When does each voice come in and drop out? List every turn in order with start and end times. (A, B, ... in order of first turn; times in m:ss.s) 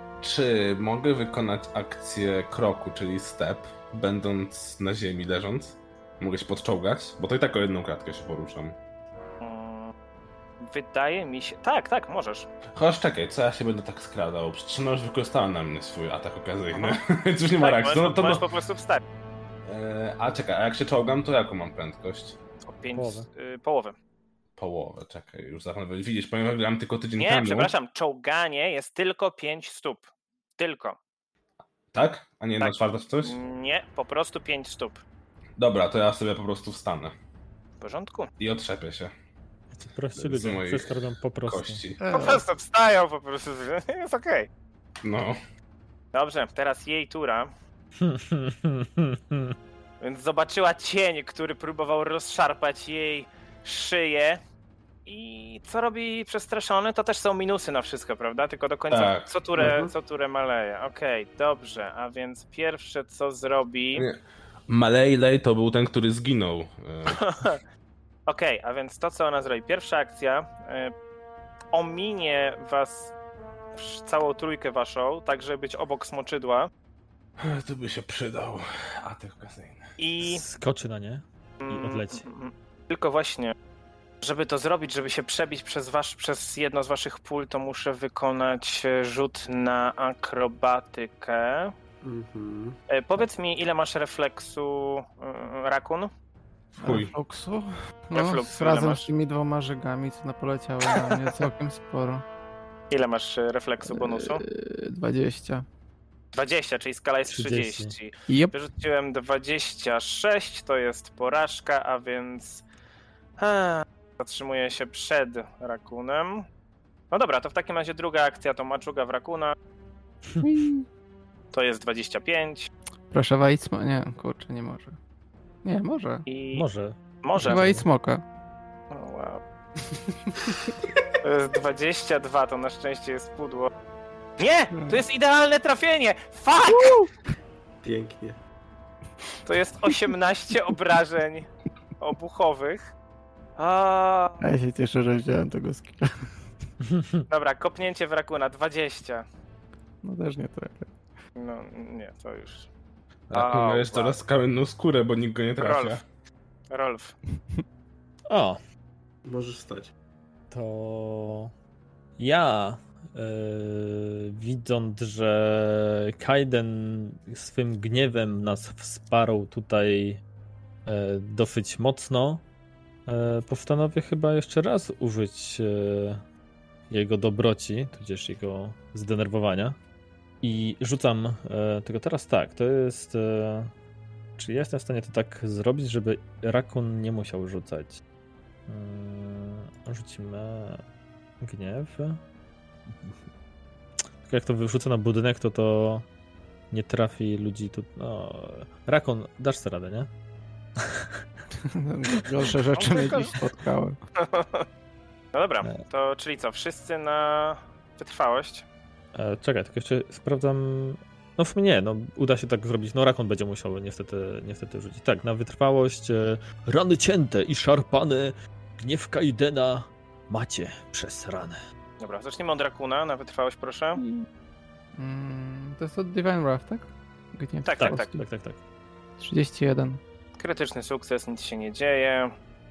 0:00.2-0:08.8 A
0:09.4-0:09.9 B
0:10.6-0:12.5 B
0:12.8-0:18.5 A
0:17.6-0:19.0 B
0:19.7-0:22.4 A
0:22.6-0:24.0 B
0:23.0-0:23.3 C
0:24.6-0:27.7 A
0:27.2-0:30.0 B
0:30.6-0:31.0 B
0:31.9-0:33.4 A
0:32.6-0:35.0 B
0:35.6-0:37.1 A
0:37.8-0:38.3 B
0:38.4-0:39.1 A
0:39.8-0:41.8 C
0:40.1-0:42.0 A
0:42.0-0:42.4 D
0:42.1-0:44.5 B
0:45.0-0:45.4 A
0:46.1-0:47.5 B
0:48.0-0:49.6 C
0:50.0-0:54.4 B
0:55.1-1:04.1 B
0:58.9-0:59.3 A
0:59.6-0:59.9 E
1:04.0-1:07.5 A
1:07.1-1:07.6 B
1:08.3-1:10.9 B
1:11.7-1:13.1 B
1:13.7-1:16.7 B
1:17.4-1:19.8 A
1:20.0-1:20.4 B
1:20.2-1:22.3 C
1:21.6-1:23.6 B
1:24.2-1:31.7 B
1:32.0-1:32.8 E
1:32.9-1:36.1 B
1:36.8-1:37.1 A
1:36.8-1:42.2 D
1:38.1-1:39.1 B
1:42.9-1:44.4 B
1:43.9-1:45.7 D
1:46.3-1:52.6 B
1:47.3-1:47.9 C
1:48.3-1:48.6 D
1:53.4-1:56.5 B
1:57.1-1:59.6 B
2:00.4-2:00.8 D
2:01.5-2:02.7 B
2:03.1-2:05.0 D
2:05.6-2:06.2 D
2:06.3-2:06.7 B
2:06.5-2:07.9 C
2:07.2-2:07.8 B
2:07.4-2:08.2 D
2:08.9-2:09.4 B
2:11.2-2:13.7 B
2:14.4-2:17.0 B
2:14.7-2:15.0 D
2:16.7-2:17.1 D
2:17.8-2:18.4 E
2:19.4-2:21.5 B
2:22.0-2:22.9 B
2:23.6-2:24.5 B
2:24.4-2:26.2 D
2:26.9-2:27.2 C
2:27.3-2:29.2 B
2:30.0-2:30.9 D
2:31.4-2:32.7 B
2:33.3-2:36.0 A
2:33.3-2:34.2 B
2:35.6-2:36.0 B
2:36.7-2:37.1 B
2:38.3-2:38.6 C
2:39.2-2:39.9 E
2:40.5-2:41.5 C
2:42.2-2:50.2 C
2:50.9-2:52.4 C
2:53.1-2:56.2 C
2:56.9-2:59.8 C
3:00.4-3:03.7 C
3:04.4-3:08.0 C
3:08.7-3:10.8 C
3:11.4-3:12.2 C
3:14.2-3:16.1 C
3:16.7-3:20.1 C
3:20.8-3:21.1 C
3:21.6-3:24.0 D
3:22.7-3:23.4 B
3:24.2-3:24.7 B
3:25.3-3:28.6 B
3:29.2-3:41.6 C
3:42.0-3:44.0 B
3:44.0-3:44.3 D
3:45.0-3:48.3 D
3:47.6-3:48.1 B
3:47.8-3:48.6 C
3:49.2-3:50.0 D
3:50.4-3:52.3 B